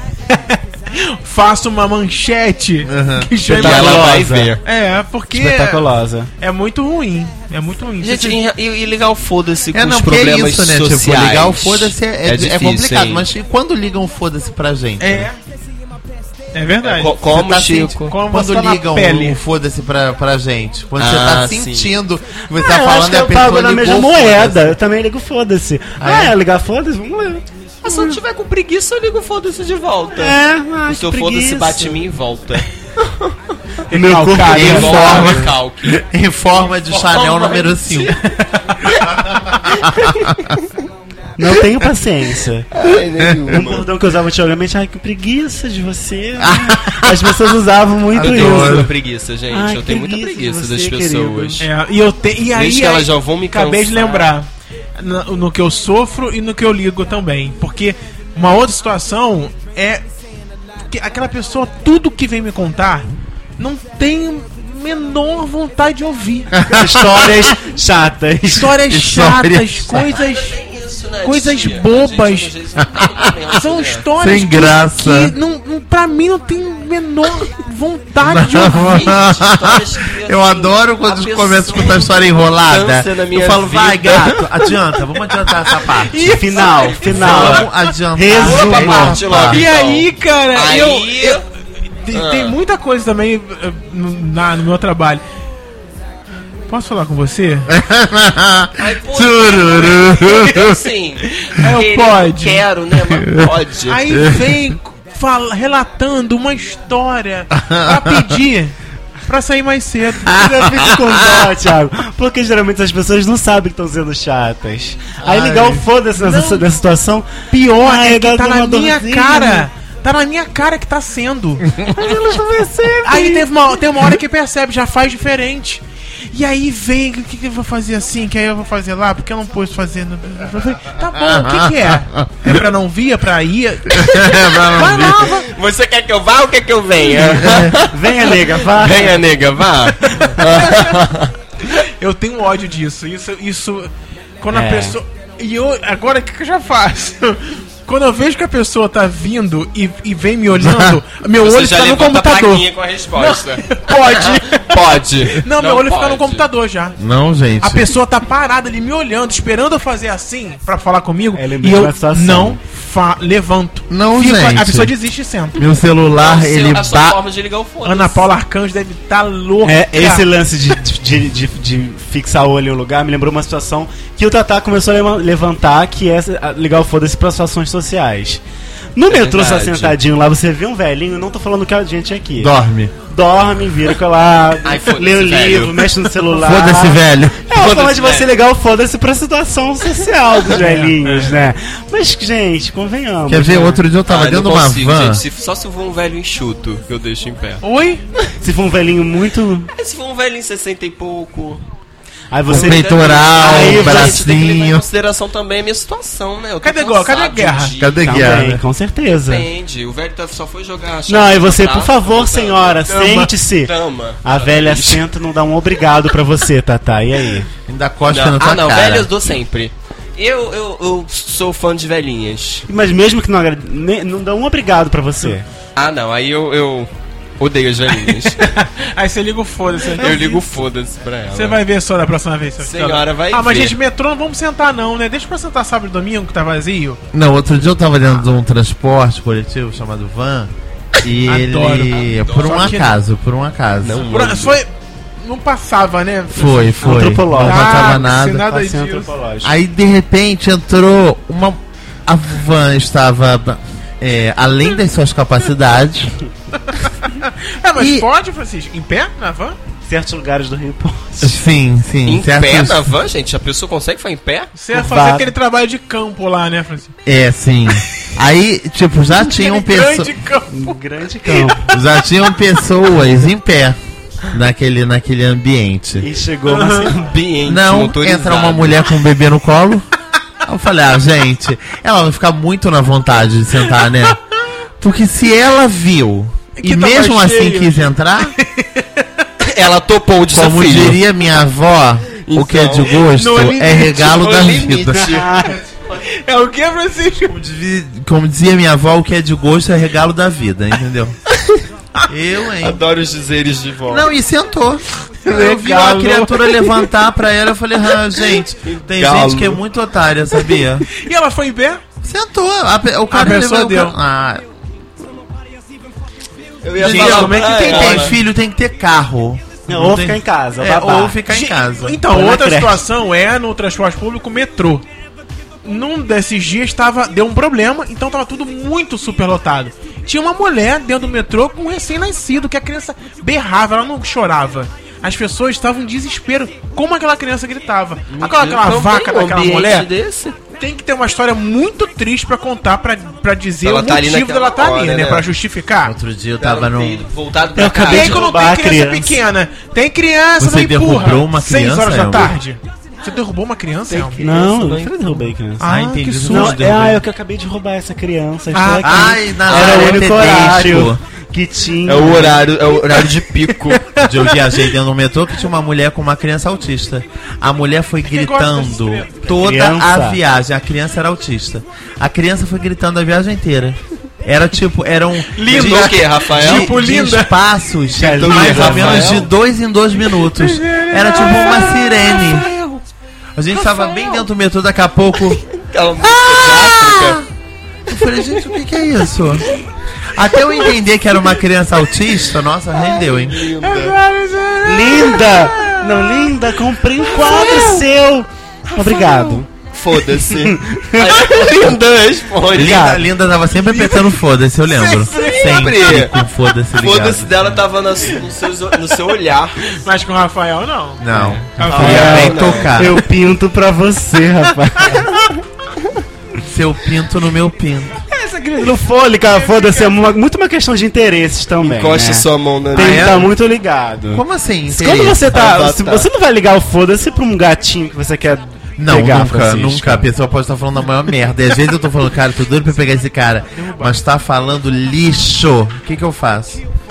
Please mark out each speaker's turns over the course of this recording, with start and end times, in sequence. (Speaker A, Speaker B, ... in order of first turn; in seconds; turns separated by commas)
Speaker A: 0.3-4.0, Speaker B: 2.8-4.0, Speaker C: 3.5-4.5, Speaker D: 3.5-4.6, Speaker A: 4.6-5.9, Speaker C: 5.3-6.3, Speaker A: 6.4-8.4, Speaker D: 8.0-13.3, Speaker B: 9.7-15.3, Speaker A: 15.0-15.4, Speaker A: 16.5-19.4, Speaker D: 16.8-18.1, Speaker B: 17.2-24.8, Speaker D: 21.0-21.9, Speaker C: 22.5-28.2, Speaker B: 26.0-26.4, Speaker D: 27.8-30.4, Speaker C: 30.2-32.0, Speaker D: 30.9-33.4, Speaker C: 33.9-35.3, Speaker A: 33.9-35.5, Speaker B: 34.5-38.2, Speaker D: 34.5-36.0, Speaker D: 36.9-38.3, Speaker B: 39.0-40.5, Speaker D: 39.8-40.2, Speaker C: 41.4-42.9, Speaker D: 42.7-43.9, Speaker B: 43.3-43.6, Speaker C: 43.5-48.9, Speaker B: 46.4-47.5, Speaker B: 48.1-48.9, Speaker D: 48.2-51.6, Speaker C: 49.5-51.6, Speaker A: 51.6-60.0, Speaker D: 52.5-54.4, Speaker A: 60.9-66.5, Speaker B: 66.5-67.5, Speaker C: 66.7-68.8, Speaker A: 68.5-70.6, Speaker B: 68.8-70.1, Speaker D: 70.2-74.1, Speaker A: 71.2-72.5, Speaker B: 72.9-73.3, Speaker A: 73.5-79.1, Speaker B: 74.2-75.3, Speaker B: 78.2-86.4, Speaker D: 78.7-82.1, Speaker D: 82.7-84.4, Speaker A: 86.1-87.5, Speaker C: 86.2-89.2, Speaker D: 86.5-87.7, Speaker B: 87.0-89.7, Speaker D: 88.3-91.5, Speaker A: 89.5-91.5, Speaker A: 92.0-95.2, Speaker D: 92.1-92.6, Speaker A: 96.7-97.7, Speaker B: 97.7-100.8, Speaker D: 98.8-104.0, Speaker A: 101.5-102.7, Speaker B: 103.1-103.5, Speaker A: 103.9-108.8, Speaker B: 104.1-104.7, Speaker B: 107.5-108.4, Speaker A: 109.3-110.3, Speaker B: 110.2-111.5, Speaker C: 110.3-119.7, Speaker B: 115.2-115.9, Speaker A: 116.2-116.7, Speaker A: 117.5-121.8, Speaker B: 121.7-122.1, Speaker C: 121.9-123.5, Speaker A: 123.0-135.5, Speaker B: 131.2-132.6, Speaker B: 134.0-135.3, Speaker D: 135.2-141.3, Speaker B: 137.4-137.7, Speaker C: 137.5-139.2, Speaker A: 140.1-141.0, Speaker A: 141.7-157.0, Speaker C: 144.5-145.0, Speaker B: 150.5-151.0, Speaker D: 151.4-156.5, Speaker B: 157.0-157.9, Speaker A: 157.6-165.6, Speaker C: 161.3-162.6, Speaker B: 163.9-164.9, Speaker B: 165.6-167.2, Speaker D: 166.2-168.3, Speaker A: 167.8-170.2, Speaker C: 169.6-178.4, Speaker C: 179.0-182.5, Speaker D: 179.1-180.0, Speaker B: 182.4-182.9, Speaker C: 183.1-193.8, Speaker D: 184.6-185.9, Speaker B: 186.3-187.5, Speaker D: 187.5-188.3, Speaker A: 190.5-191.4, Speaker B: 193.3-195.2, Speaker D: 194.1-197.6, Speaker A: 197.6-198.0, Speaker C: 198.4-199.7, Speaker D: 199.7-201.7, Speaker C: 202.3-204.2, Speaker B: 202.5-204.8, Speaker D: 202.5-208.1, Speaker A: 206.6-207.8, Speaker B: 207.8-208.6, Speaker C: 208.0-209.5, Speaker D: 209.1-215.1, Speaker C: 211.1-217.5, Speaker A: 212.9-213.3, Speaker B: 217.7-219.4, Speaker D: 218.1-222.7, Speaker C: 222.7-225.5, Speaker D: 225.8-228.4, Speaker A: 228.1-230.6, Speaker D: 230.0-231.6, Speaker A: 231.3-237.0, Speaker D: 232.6-233.8, Speaker B: 237.1-244.1, Speaker A: 241.3-243.0, Speaker D: 241.9-242.8, Speaker D: 243.8-244.6, Speaker A: 244.1-249.1, Speaker B: 246.3-248.5, Speaker C: 246.8-249.5, Speaker B: 249.4-256.1, Speaker A: 256.7-259.6, Speaker B: 257.8-258.1, Speaker C: 259.9-261.4, Speaker B: 261.2-262.9, Speaker D: 262.1-264.5, Speaker A: 264.6-266.9, Speaker C: 264.7-265.3, Speaker B: 267.1-270.1, Speaker A: 269.2-271.8, Speaker C: 270.5-271.7, Speaker B: 271.7-273.8, Speaker B: 274.3-276.1, Speaker C: 276.0-277.1, Speaker A: 276.5-276.9, Speaker D: 276.9-278.9, Speaker B: 277.4-279.9, Speaker B: 280.4-284.2, Speaker B: 284.8-288.4, Speaker A: 286.6-289.2, Speaker D: 289.4-291.0, Speaker B: 290.3-295.3, Speaker D: 292.3-293.1, Speaker A: 293.1-293.9, Speaker D: 293.8-295.3, Speaker C: 295.0-295.6, Speaker A: 295.9-297.4, Speaker B: 297.3-301.2, Speaker B: 302.1-302.8, Speaker D: 302.6-304.1, Speaker B: 303.9-310.9, Speaker A: 305.2-306.8, Speaker D: 308.6-309.6, Speaker A: 310.9-311.8, Speaker B: 312.0-314.4, Speaker A: 313.1-314.0, Speaker D: 316.6-318.2, Speaker A: 316.8-318.2, Speaker B: 316.8-322.0, Speaker C: 319.7-321.2, Speaker A: 321.3-324.8, Speaker C: 322.1-322.8, Speaker A: 325.6-339.9, Speaker D: 338.1-340.4, Speaker A: 340.6-346.0, Speaker D: 343.6-345.3, Speaker B: 345.8-347.1, Speaker D: 346.4-348.3, Speaker C: 347.6-349.2, Speaker A: 347.9-354.2, Speaker B: 350.4-352.4, Speaker D: 353.9-355.3, Speaker C: 354.2-355.7, Speaker A: 355.6-356.6, Speaker B: 355.6-357.0, Speaker C: 356.2-362.5, Speaker A: 358.5-359.1, Speaker B: 358.8-361.0, Speaker D: 359.5-360.0, Speaker D: 361.9-363.9, Speaker A: 362.9-364.7, Speaker B: 364.0-382.5, Speaker A: 368.1-369.3, Speaker C: 369.3-370.2, Speaker A: 375.4-377.3, Speaker D: 375.4-376.8, Speaker C: 377.9-379.3, Speaker D: 378.1-379.3, Speaker A: 380.3-382.5, Speaker B: 383.4-385.4, Speaker D: 385.5-387.2, Speaker B: 386.0-387.3, Speaker B: 387.9-389.5, Speaker B: 390.1-393.5, Speaker D: 393.0-394.0, Speaker A: 393.6-396.4, Speaker C: 394.6-399.5, Speaker A: 397.1-397.8, Speaker A: 398.8-399.4, Speaker D: 399.7-403.0, Speaker C: 400.1-401.6, Speaker B: 402.5-407.6, Speaker C: 402.6-403.0, Speaker D: 404.8-406.2, Speaker D: 406.8-409.6, Speaker A: 409.7-411.1, Speaker B: 411.0-413.0, Speaker C: 411.1-415.3, Speaker A: 411.6-412.5, Speaker D: 411.7-412.8, Speaker B: 416.4-418.0, Speaker C: 418.1-430.1, Speaker A: 419.4-419.9, Speaker D: 421.6-423.3, Speaker B: 422.8-423.3, Speaker B: 424.1-425.4, Speaker D: 425.3-426.1, Speaker B: 428.8-436.6, Speaker A: 433.5-433.9